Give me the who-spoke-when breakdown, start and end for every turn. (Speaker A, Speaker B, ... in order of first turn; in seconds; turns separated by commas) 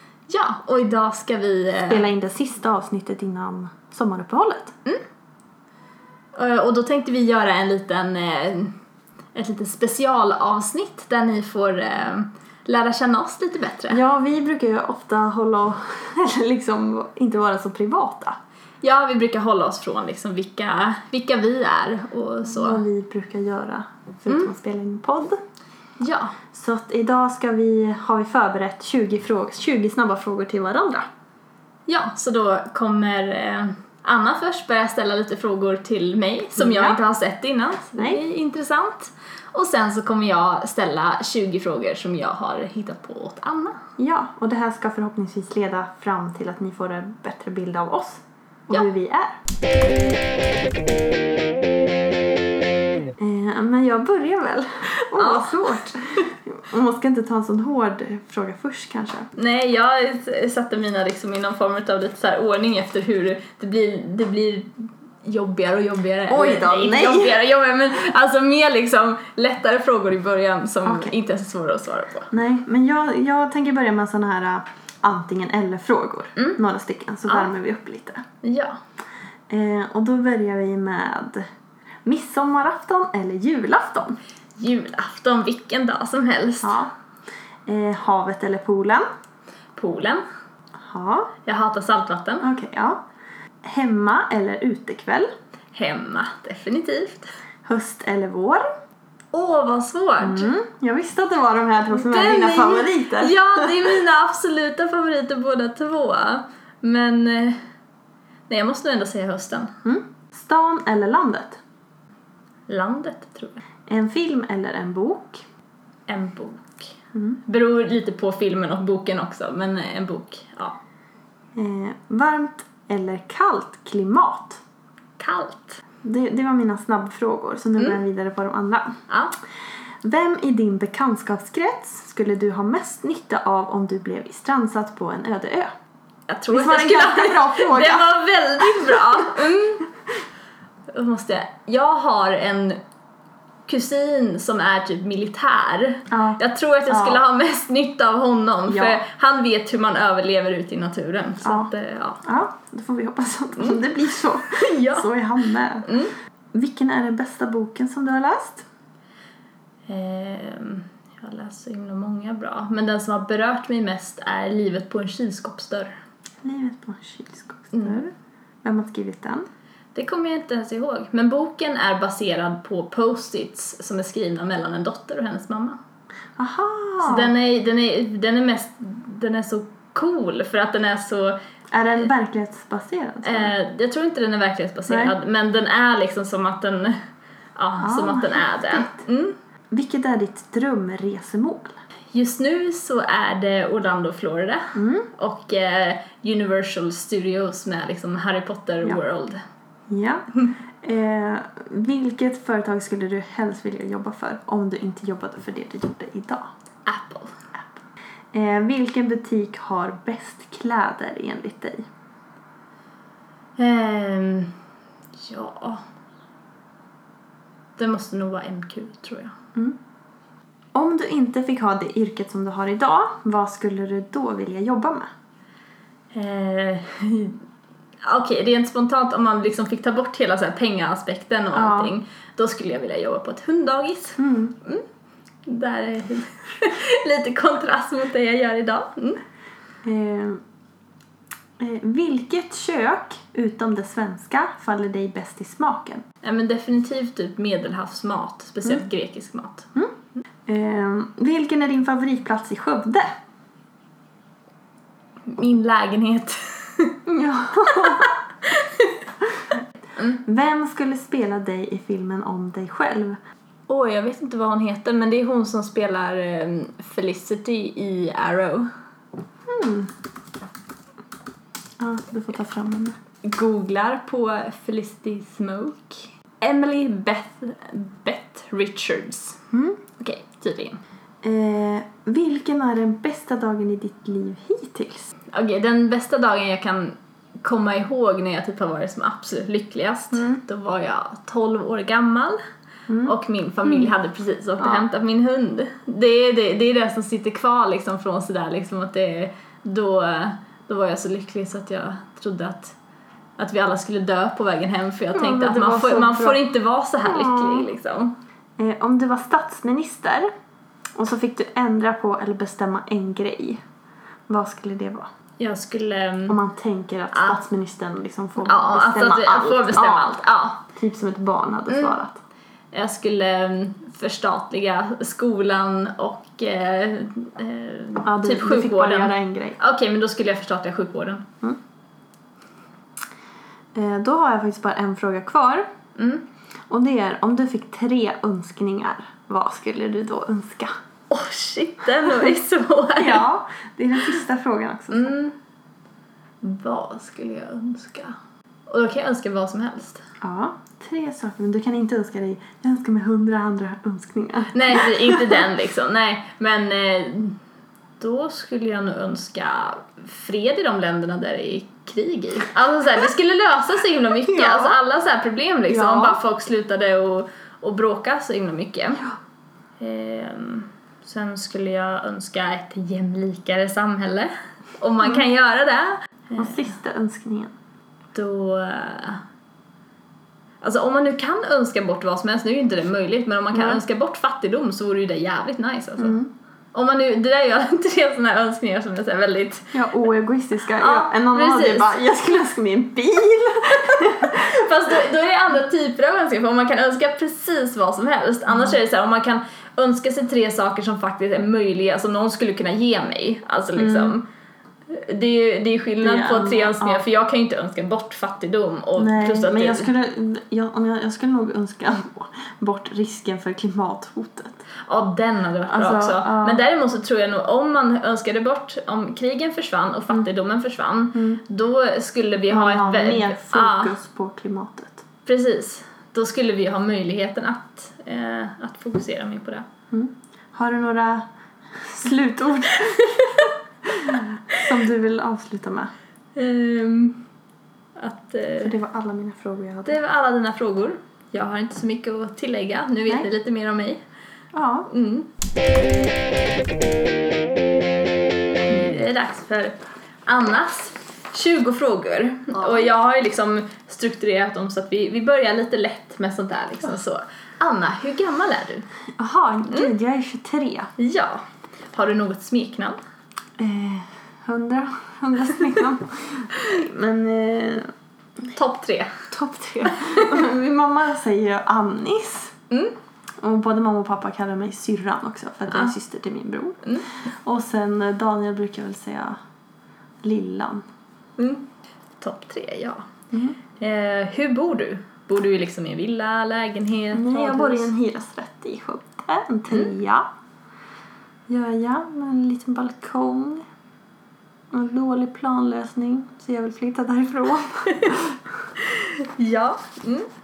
Speaker A: 0.3-2.0, Speaker B: 1.8-4.8, Speaker A: 6.3-8.8, Speaker A: 9.3-14.0, Speaker B: 13.9-18.4, Speaker A: 18.8-22.8, Speaker B: 22.4-25.4, Speaker A: 26.0-26.4, Speaker B: 26.5-31.0, Speaker A: 31.9-43.8, Speaker B: 36.5-37.0, Speaker B: 38.0-38.2, Speaker B: 44.0-49.4, Speaker B: 53.2-59.3, Speaker A: 55.1-55.6, Speaker A: 59.4-72.3, Speaker B: 66.3-67.4, Speaker B: 70.8-71.1, Speaker B: 72.3-78.2, Speaker A: 78.4-78.8, Speaker B: 79.5-81.4, Speaker B: 82.0-84.2, Speaker A: 84.6-86.8, Speaker B: 86.6-86.9, Speaker B: 87.7-89.1, Speaker A: 89.8-90.2, Speaker B: 90.8-91.3, Speaker A: 91.4-92.5, Speaker B: 92.4-93.0, Speaker B: 93.6-95.3, Speaker A: 95.7-97.3, Speaker B: 97.6-98.6, Speaker A: 99.3-100.5, Speaker B: 100.2-104.0, Speaker A: 101.9-107.6, Speaker A: 108.5-109.7, Speaker B: 109.8-111.6, Speaker A: 112.7-113.6, Speaker B: 113.9-115.4, Speaker A: 116.1-116.9, Speaker B: 117.1-117.4, Speaker A: 117.4-120.8, Speaker B: 121.5-124.6, Speaker A: 125.2-125.8, Speaker B: 126.0-128.9, Speaker A: 129.1-129.3, Speaker B: 130.0-135.7, Speaker A: 136.3-139.8, Speaker B: 136.5-139.2, Speaker A: 140.9-142.8, Speaker A: 143.7-152.2, Speaker B: 146.1-147.2, Speaker B: 148.7-149.0, Speaker B: 151.4-151.7, Speaker B: 152.2-156.0, Speaker A: 154.5-155.1, Speaker A: 155.8-156.1, Speaker B: 156.5-158.6, Speaker A: 159.9-165.9, Speaker B: 166.4-168.1, Speaker A: 167.7-168.0, Speaker B: 168.6-169.5, Speaker A: 169.9-175.8, Speaker B: 176.4-177.3, Speaker A: 177.0-181.4, Speaker B: 181.7-183.6, Speaker A: 183.2-187.0, Speaker B: 184.9-185.2, Speaker A: 187.6-189.3, Speaker B: 187.8-189.1, Speaker B: 189.7-191.8, Speaker A: 192.1-199.4, Speaker B: 194.7-195.1, Speaker B: 199.9-200.2, Speaker B: 200.8-206.4, Speaker A: 206.8-207.4, Speaker B: 208.3-211.8, Speaker A: 213.6-214.6, Speaker A: 215.2-215.8, Speaker A: 217.8-219.3, Speaker B: 220.7-225.1, Speaker A: 226.1-227.4, Speaker A: 228.0-234.8, Speaker B: 231.5-231.9, Speaker B: 234.2-234.6, Speaker A: 235.4-239.2, Speaker B: 239.8-240.4, Speaker B: 241.6-246.0, Speaker A: 246.2-249.7, Speaker B: 250.5-253.1, Speaker A: 255.3-257.0, Speaker B: 257.1-258.1, Speaker A: 257.7-258.9, Speaker B: 260.1-263.2, Speaker A: 263.7-268.7, Speaker B: 269.5-269.9, Speaker B: 271.8-273.0, Speaker A: 273.2-279.4, Speaker B: 279.5-279.8, Speaker A: 280.0-280.8, Speaker B: 281.2-285.1, Speaker A: 285.3-292.4, Speaker B: 290.1-290.4, Speaker B: 292.9-293.1, Speaker A: 293.1-302.8, Speaker B: 293.6-293.9, Speaker B: 294.6-294.8, Speaker A: 303.4-308.2, Speaker B: 305.1-306.4, Speaker B: 307.0-307.7, Speaker B: 308.6-310.3, Speaker B: 311.0-313.6, Speaker B: 314.3-315.1, Speaker A: 315.4-316.4, Speaker B: 316.3-320.2, Speaker A: 317.1-317.4, Speaker A: 318.4-320.6, Speaker B: 320.7-322.2, Speaker A: 321.7-322.0, Speaker A: 322.7-331.2, Speaker B: 328.0-329.6, Speaker B: 333.7-335.7, Speaker A: 336.0-336.2, Speaker B: 336.7-340.7, Speaker A: 341.1-343.2, Speaker B: 343.0-345.2, Speaker A: 344.9-345.4, Speaker A: 346.4-348.1, Speaker A: 348.7-350.0, Speaker B: 350.2-355.4, Speaker A: 354.5-357.4, Speaker A: 358.0-369.0, Speaker B: 364.2-364.8, Speaker B: 365.7-366.2, Speaker A: 369.8-376.7, Speaker B: 375.0-375.3, Speaker B: 376.4-377.5, Speaker A: 378.1-379.2, Speaker A: 380.6-386.2, Speaker B: 383.5-383.8, Speaker B: 386.0-386.3, Speaker A: 386.7-389.8, Speaker B: 389.7-394.5, Speaker A: 390.7-391.9, Speaker A: 394.2-404.2, Speaker B: 398.5-398.8, Speaker B: 403.8-404.2, Speaker A: 404.9-409.9, Speaker B: 406.0-407.0, Speaker B: 409.0-414.6, Speaker A: 414.9-423.9, Speaker B: 415.7-416.6, Speaker B: 421.1-421.4, Speaker B: 422.5-425.0, Speaker A: 425.2-429.6, Speaker B: 429.9-431.2, Speaker B: 431.8-433.1, Speaker A: 432.8-433.5, Speaker B: 434.0-435.9, Speaker A: 436.3-437.2, Speaker A: 437.9-438.7, Speaker B: 438.6-440.0, Speaker A: 439.9-444.0, Speaker B: 444.5-444.9, Speaker A: 444.9-445.3, Speaker A: 448.7-458.9, Speaker B: 452.5-452.9, Speaker B: 459.2-460.9, Speaker A: 461.0-463.0, Speaker B: 463.6-467.9, Speaker A: 468.5-469.1, Speaker B: 469.3-472.5, Speaker A: 469.9-470.3, Speaker A: 472.7-473.0, Speaker B: 473.4-479.4, Speaker B: 480.2-480.8, Speaker A: 481.4-481.7, Speaker A: 482.2-483.0, Speaker A: 483.8-487.9, Speaker B: 487.1-490.3, Speaker B: 491.5-493.6, Speaker B: 494.7-498.4, Speaker A: 498.8-500.3